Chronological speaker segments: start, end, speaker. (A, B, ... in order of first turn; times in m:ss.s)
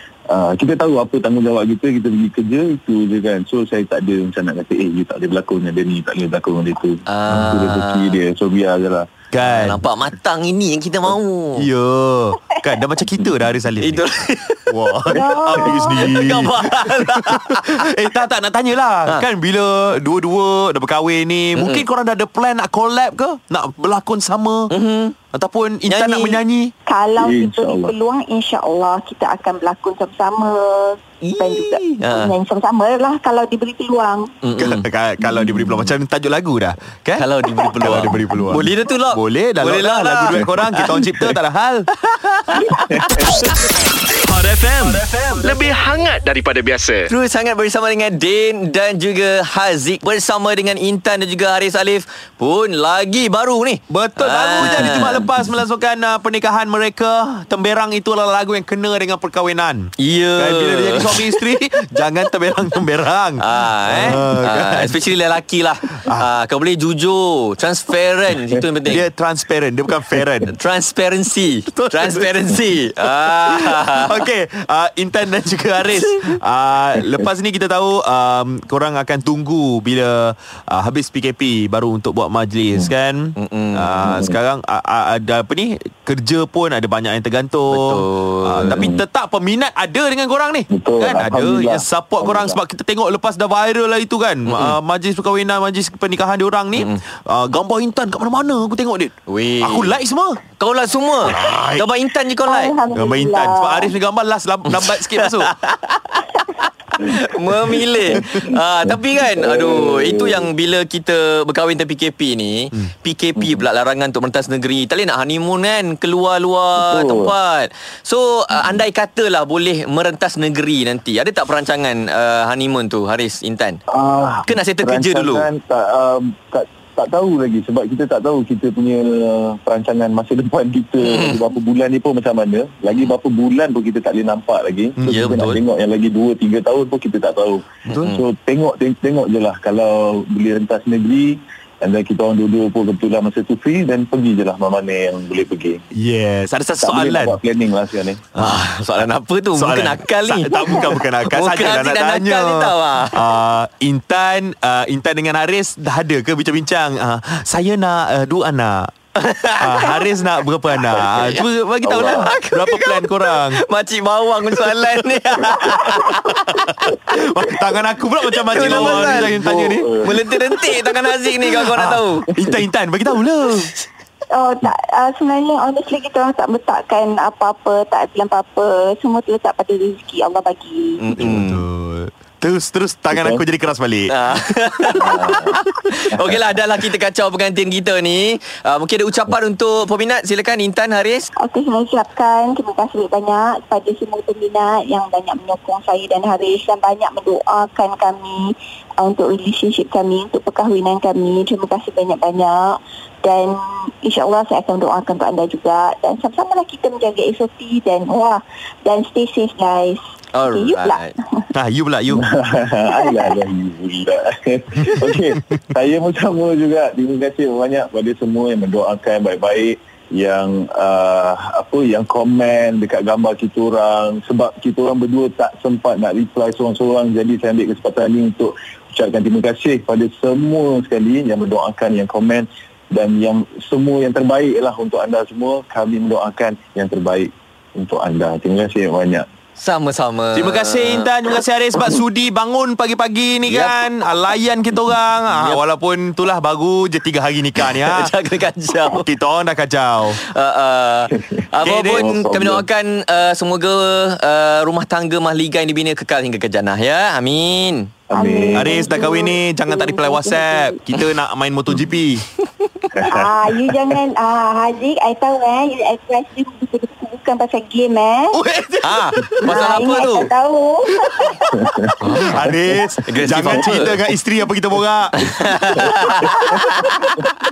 0:00.3-0:09.1 A
0:07.1-0:08.2 B
0:07.3-0:07.6 C
0:09.3-0:09.8 C
0:09.4-0:11.7 B
0:11.6-0:14.0 C
0:13.8-0:14.7 B
0:14.7-0:24.7 C
0:15.1-0:16.1 D
0:15.8-0:17.8 B
0:21.6-0:21.8 B
0:24.7-0:25.1 B
0:25.3-0:26.7 C
0:25.9-0:26.4 B
0:26.8-0:34.3 D
0:27.2-0:27.9 A
0:31.4-0:31.8 C
0:32.0-0:32.3 B
0:34.4-0:34.9 B
0:34.6-0:41.9 C
0:35.2-0:35.7 A
0:37.1-0:41.3 B
0:42.0-0:43.7 B
0:42.5-0:43.3 A
0:44.2-0:47.1 E
0:47.1-0:55.3 B
0:53.9-1:05.0 C
1:00.0-1:01.4 B
1:03.4-1:09.0 B
1:05.9-1:06.3 C
1:08.9-1:10.5 C
1:10.5-1:14.2 B
1:11.7-1:40.4 C
1:23.4-1:24.2 B
1:24.0-1:24.3 A
1:27.7-1:29.0 B
1:30.7-1:32.6 A
1:34.5-1:34.8 B
1:36.7-1:37.0 B
1:39.3-1:40.0 B
1:40.6-1:42.8 B
1:41.2-1:41.9 C
1:42.4-1:44.0 D
1:42.9-1:45.5 C
1:44.7-2:03.8 B
1:47.6-1:48.4 A
1:49.2-1:50.5 A
1:53.4-1:53.6 A
1:56.8-1:57.3 A
2:03.9-2:25.8 A
2:04.5-2:05.5 B
2:11.0-2:11.4 B
2:15.0-2:15.4 C
2:15.0-2:15.6 B
2:17.9-2:18.1 C
2:25.9-2:27.4 C
2:26.8-2:28.2 A
2:28.4-2:38.9 C
2:28.4-2:33.2 B
2:39.2-2:40.0 B
2:39.6-2:43.6 C
2:40.7-2:47.2 B
2:41.9-2:42.3 A
2:44.6-2:53.7 C
2:48.4-2:49.4 B
2:48.5-2:50.1 A
2:50.0-2:52.3 B
2:54.3-3:01.0 D
3:01.0-3:01.6 B
3:01.2-3:04.1 C
3:03.1-3:03.4 A
3:04.1-3:11.3 B
3:04.9-3:06.4 A
3:11.4-3:31.4 D
3:30.3-3:31.1 B
3:31.5-3:32.2 C
3:32.1-3:59.2 A
3:59.6-4:01.1 B
4:00.3-4:08.1 C
4:03.4-4:03.9 B
4:05.3-4:05.6 B
4:07.6-4:09.1 B
4:08.9-4:10.2 C
4:10.1-4:17.9 B
4:11.6-4:12.1 C
4:11.9-4:12.6 A
4:18.1-4:18.8 A
4:18.1-4:20.8 D
4:18.5-4:22.2 C
4:22.9-4:23.8 A
4:23.0-4:28.4 D
4:28.3-4:30.0 C
4:28.8-4:30.3 B
4:29.4-4:31.9 D
4:31.5-4:31.9 A
4:32.0-4:32.4 B
4:32.1-4:37.0 C
4:33.0-4:34.1 B
4:35.2-4:37.3 B